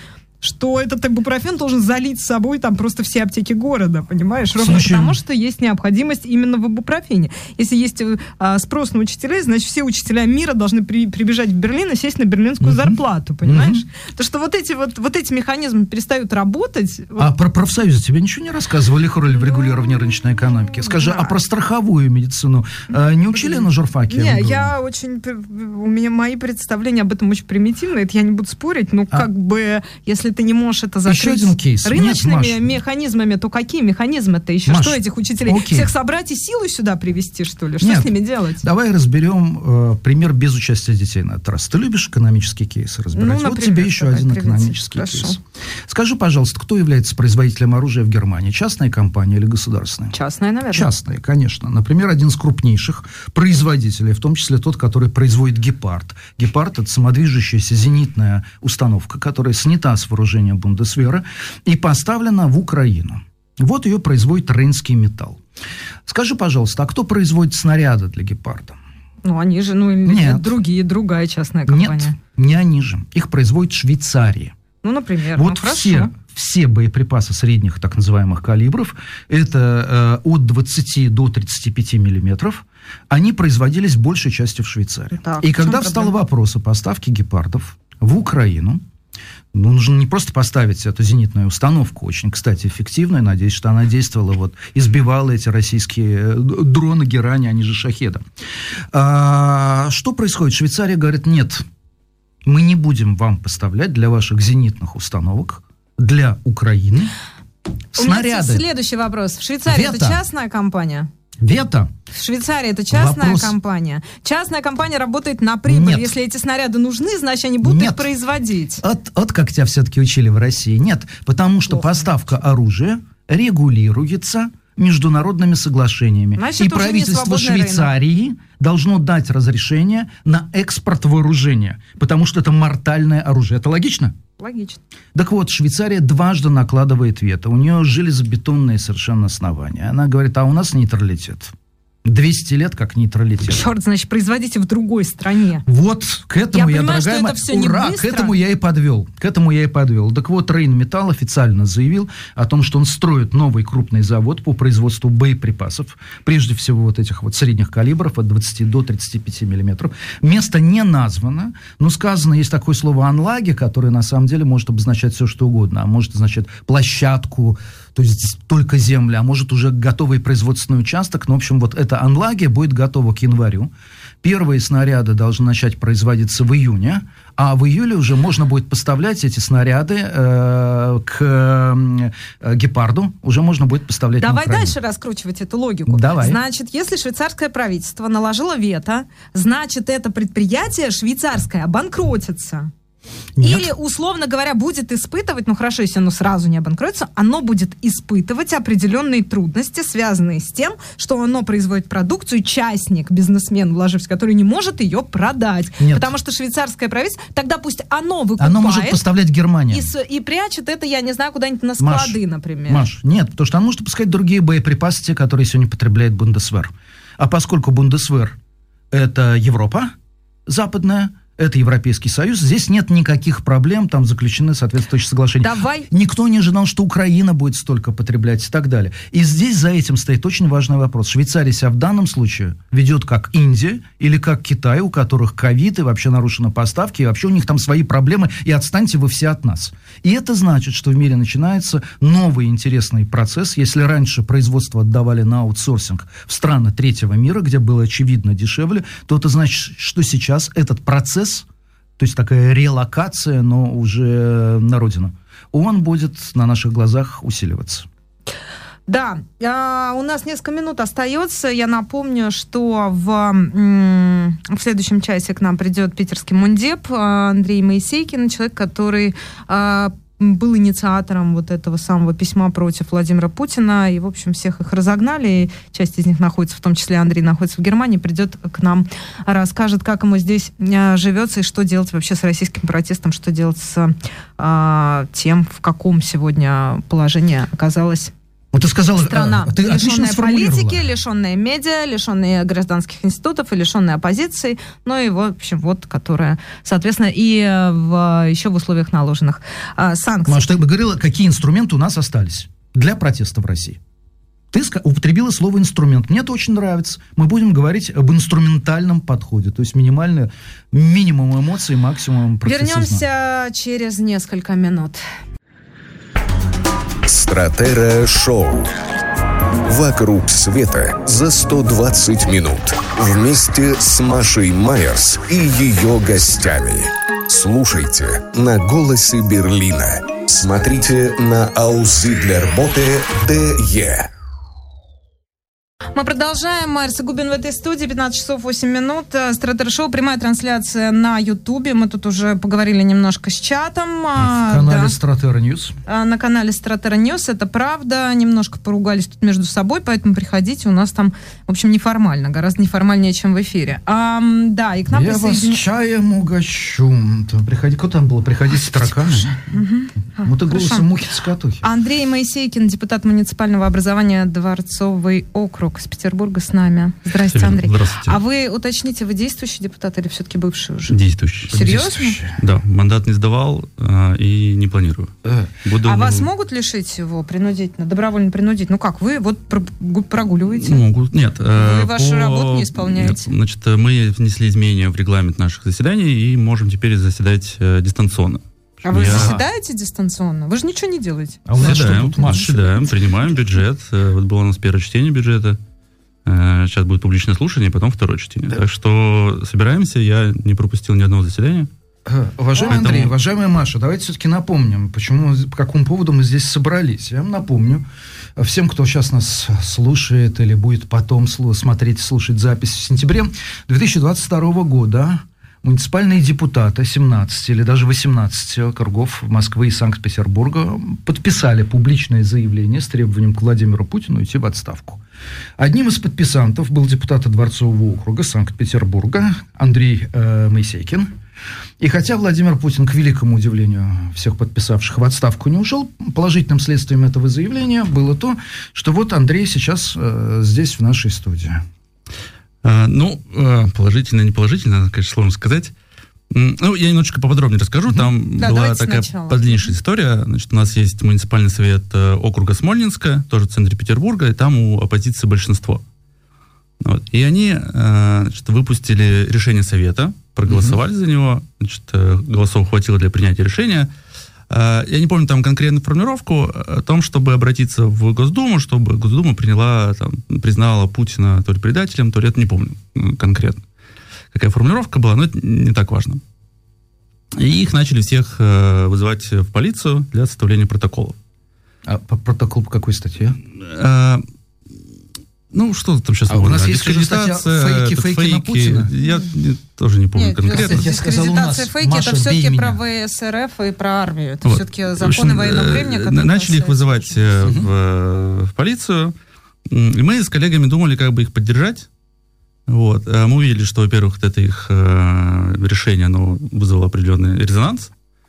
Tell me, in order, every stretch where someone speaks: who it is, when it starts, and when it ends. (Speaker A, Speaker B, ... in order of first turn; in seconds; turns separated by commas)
Speaker A: 0.4-17.3, Speaker B: 4.6-5.2, Speaker B: 12.6-13.8, Speaker B: 17.2-24.7, Speaker A: 19.3-21.4, Speaker A: 23.3-38.6, Speaker B: 31.1-32.6, Speaker B: 34.6-35.9, Speaker B: 37.8-50.1, Speaker A: 43.1-45.4, Speaker A: 50.1-50.9, Speaker B: 50.7-65.4, Speaker B: 66.0-68.8, Speaker A: 69.2-72.2, Speaker B: 70.0-70.6, Speaker B: 71.7-74.5, Speaker A: 74.8-76.1, Speaker B: 75.3-88.8, Speaker A: 85.1-86.2, Speaker B: 89.5-98.2, Speaker B: 98.9-101.7, Speaker B: 102.4-107.1, Speaker B: 107.9-108.6, Speaker A: 108.0-111.1, Speaker B: 109.7-110.2, Speaker B: 111.4-111.9, Speaker A: 112.1-118.8, Speaker B: 112.9-113.5, Speaker B: 115.7-116.1, Speaker B: 117.6-118.1, Speaker B: 118.8-134.2, Speaker A: 121.7-122.1, Speaker A: 126.4-127.9, Speaker A: 134.4-134.8, Speaker B: 135.1-141.5, Speaker B: 142.0-143.6, Speaker A: 143.4-145.6, Speaker B: 145.7-173.7, Speaker A: 146.5-148.3, Speaker B: 174.2-184.8, Speaker A: 184.2-192.7, Speaker B: 185.8-186.4, Speaker B: 193.4-193.7, Speaker A: 193.4-209.0, Speaker B: 205.8-206.1, Speaker B: 208.4-209.9, Speaker A: 209.7-212.9, Speaker B: 211.8-218.4, Speaker B: 218.9-219.9, Speaker B: 220.5-251.4, Speaker A: 225.4-225.9, Speaker B: 252.0-257.9, Speaker A: 258.9-288.1, Speaker B: 288.5-290.9, Speaker A: 289.0-300.6, Speaker B: 300.2-303.8, Speaker B: 304.5-313.0, Speaker A: 312.4-315.0, Speaker C: 317.0-318.7, Speaker C: 319.7-334.1, Speaker A: 335.9-344.9, Speaker B: 344.1-345.8, Speaker A: 345.9-355.6, Speaker B: 354.9-359.3, Speaker A: 359.2-360.9, Speaker B: 360.2-361.6, Speaker A: 361.6-371.0, Speaker D: 367.3-368.2, Speaker D: 370.9-371.6, Speaker A: 371.5-372.2, Speaker B: 371.5-372.4, Speaker D: 372.4-376.3, Speaker B: 375.2-375.5, Speaker A: 375.8-380.8, Speaker D: 380.5-389.4, Speaker A: 381.6-383.3, Speaker A: 388.8-392.9, Speaker B: 389.0-389.4, Speaker B: 391.5-392.6, Speaker D: 391.6-395.6, Speaker D: 396.2-401.7, Speaker B: 402.1-425.0, Speaker A: 402.6-403.0, Speaker D: 402.7-403.1, Speaker B: 425.6-431.1, Speaker B: 431.8-441.6, Speaker D: 442.6-445.7, Speaker D: 446.3-455.8, Speaker A: 448.4-449.7, Speaker D: 456.8-463.9, Speaker B: 460.5-460.8, Speaker D: 464.5-473.6, Speaker D: 474.3-476.2, Speaker D: 477.4-481.2, Speaker B: 481.9-483.4, Speaker D: 483.5-484.2, Speaker D: 485.5-490.9, Speaker B: 486.3-488.9, Speaker A: 490.1-497.4, Speaker B: 490.5-492.8, Speaker D: 494.4-499.1, Speaker B: 497.4-497.7, Speaker D: 499.7-501.9, Speaker D: 502.7-507.9